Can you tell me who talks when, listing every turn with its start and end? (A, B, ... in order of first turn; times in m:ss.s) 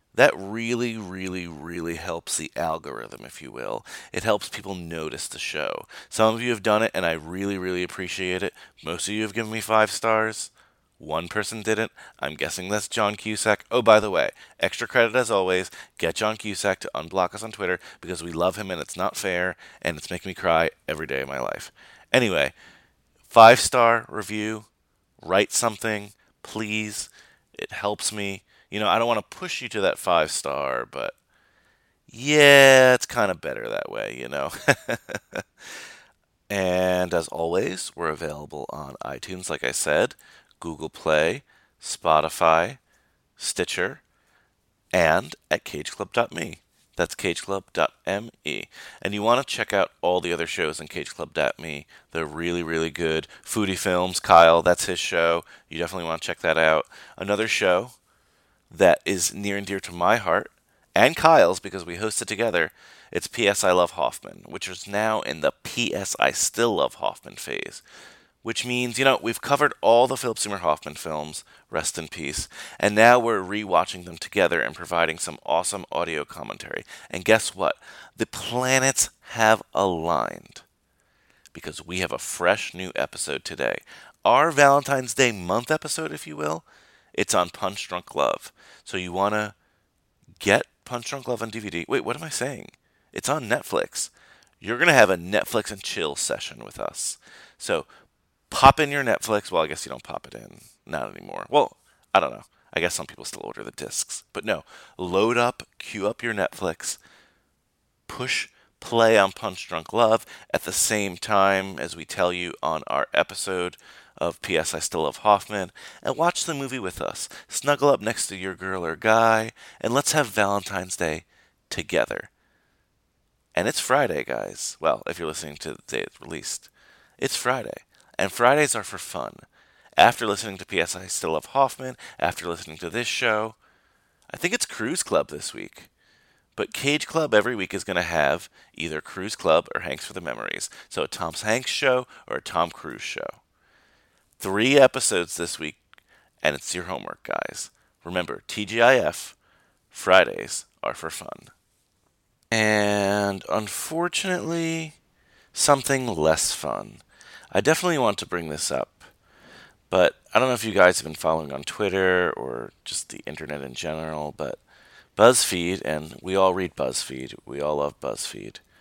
0:00.1-0:22.5 A
0:23.3-0:24.7 A
0:25.2-0:31.2 A
0:32.1-0:35.4 A
0:36.5-0:42.8 A
0:43.4-0:44.0 A
0:44.9-0:58.0 A
0:58.7-1:07.8 A
1:08.4-1:20.6 A
1:21.5-1:29.6 A
1:30.4-1:37.9 A
1:38.5-1:47.0 A
1:48.1-2:02.3 A
2:03.6-2:09.4 A
2:10.0-2:13.6 A
2:14.3-2:15.9 A
2:16.6-2:23.4 A
2:24.4-2:25.8 A
2:26.4-2:29.4 A
2:29.9-2:31.5 A
2:32.5-2:35.0 A
2:35.5-2:39.1 A
2:39.9-2:44.6 A
2:45.2-2:48.6 A